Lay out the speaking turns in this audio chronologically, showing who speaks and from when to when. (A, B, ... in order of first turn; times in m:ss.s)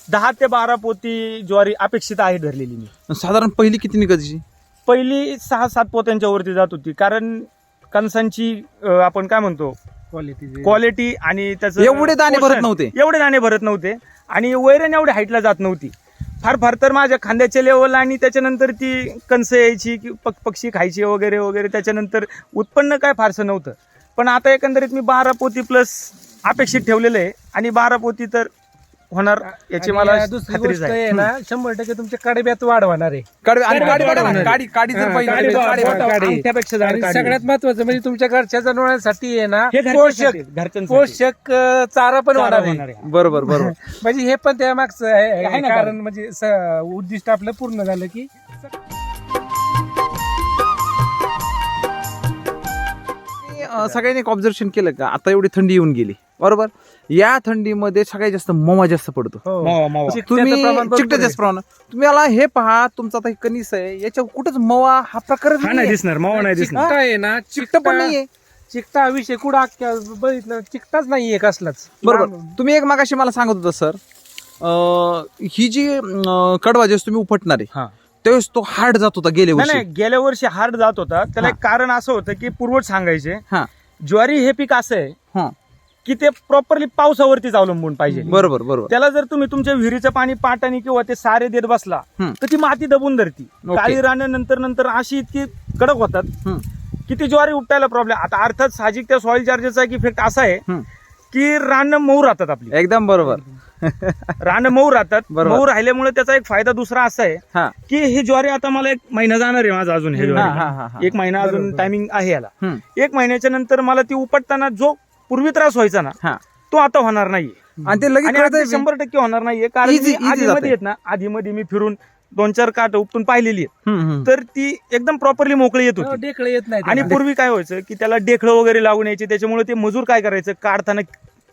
0:00.1-0:02.9 A
0:03.1-0:04.4 B
0:04.9-0:09.8 A
0:10.1-0:10.8 C
0:10.6-0:28.5 A
0:11.8-0:12.9 B
0:29.1-0:31.0 A
0:29.5-0:48.4 C
0:33.4-0:36.2 B
0:33.7-0:34.6 A
0:35.1-0:37.4 A
0:39.7-0:41.2 A
0:42.3-0:43.1 A
0:43.0-0:43.8 B
0:45.4-0:46.0 A
0:53.4-0:59.4 B
0:53.6-0:54.0 A
0:59.4-1:01.4 C
0:59.6-1:00.2 A
1:00.1-1:06.0 B
1:05.6-1:06.9 A
1:06.3-1:08.2 C
1:07.5-1:08.3 B
1:08.7-1:12.5 C
1:12.0-1:14.0 B
1:14.6-1:17.7 B
1:18.2-1:19.8 B
1:19.6-1:23.4 A
1:24.0-1:25.2 A
1:26.0-1:36.3 A
1:28.1-1:28.4 C
1:28.3-1:28.9 B
1:33.7-1:34.0 B
1:37.1-1:40.6 A
1:41.3-1:42.7 A
1:42.7-1:44.4 B
1:44.4-1:56.2 A
1:45.3-1:45.6 B
1:50.2-1:50.7 C
1:50.3-1:51.2 B
1:51.4-1:51.9 C
1:56.7-1:57.6 A
1:57.8-1:58.9 B
1:58.2-2:03.7 A
1:59.8-2:00.8 B
2:03.9-2:04.3 B
2:04.2-2:06.2 A
2:06.0-2:07.2 C
2:06.8-2:11.1 A